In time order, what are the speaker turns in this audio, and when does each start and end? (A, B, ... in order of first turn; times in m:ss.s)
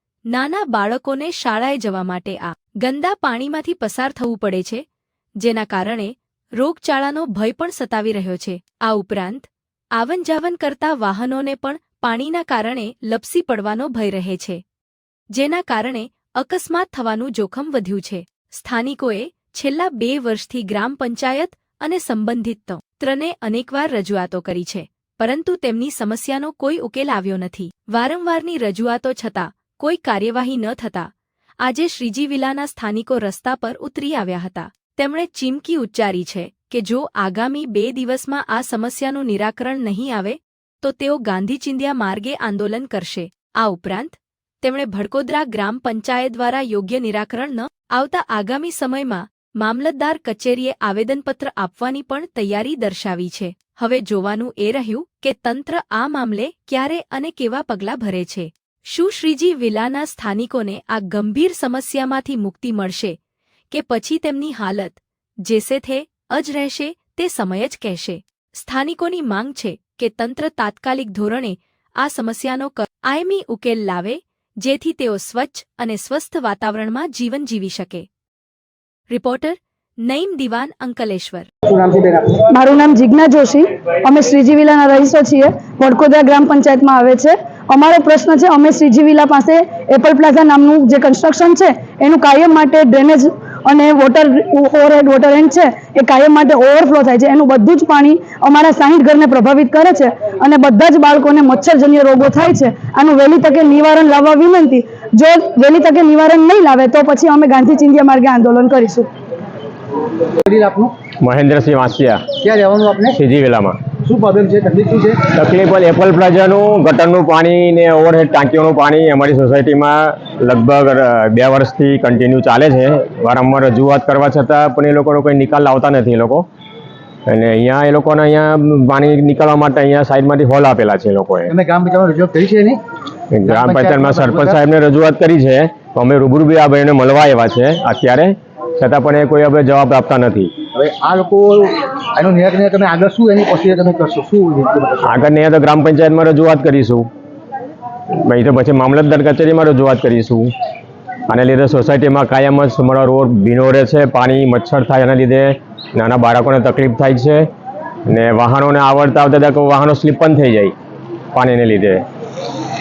0:00.3-0:04.8 A
0:05.4-0:14.6 A
0:15.3-0:31.1 A
0:31.6-1:03.2 A
1:03.7-1:18.1 A
1:19.1-1:21.5 A
1:21.7-1:22.3 B
1:22.5-1:49.1 C
1:50.5-1:51.0 B
1:51.2-1:52.4 D
1:52.4-1:53.2 B
1:53.2-1:53.8 D
1:54.1-1:55.3 B
1:55.3-2:06.5 D
2:07.3-2:11.5 D
2:11.5-2:12.8 B
2:13.3-2:20.5 D
2:13.5-2:14.6 B
2:20.8-2:25.0 B
2:25.0-2:27.1 D
2:28.2-2:30.5 D
2:31.3-2:37.5 D
2:38.1-2:40.7 D
2:41.4-2:42.0 D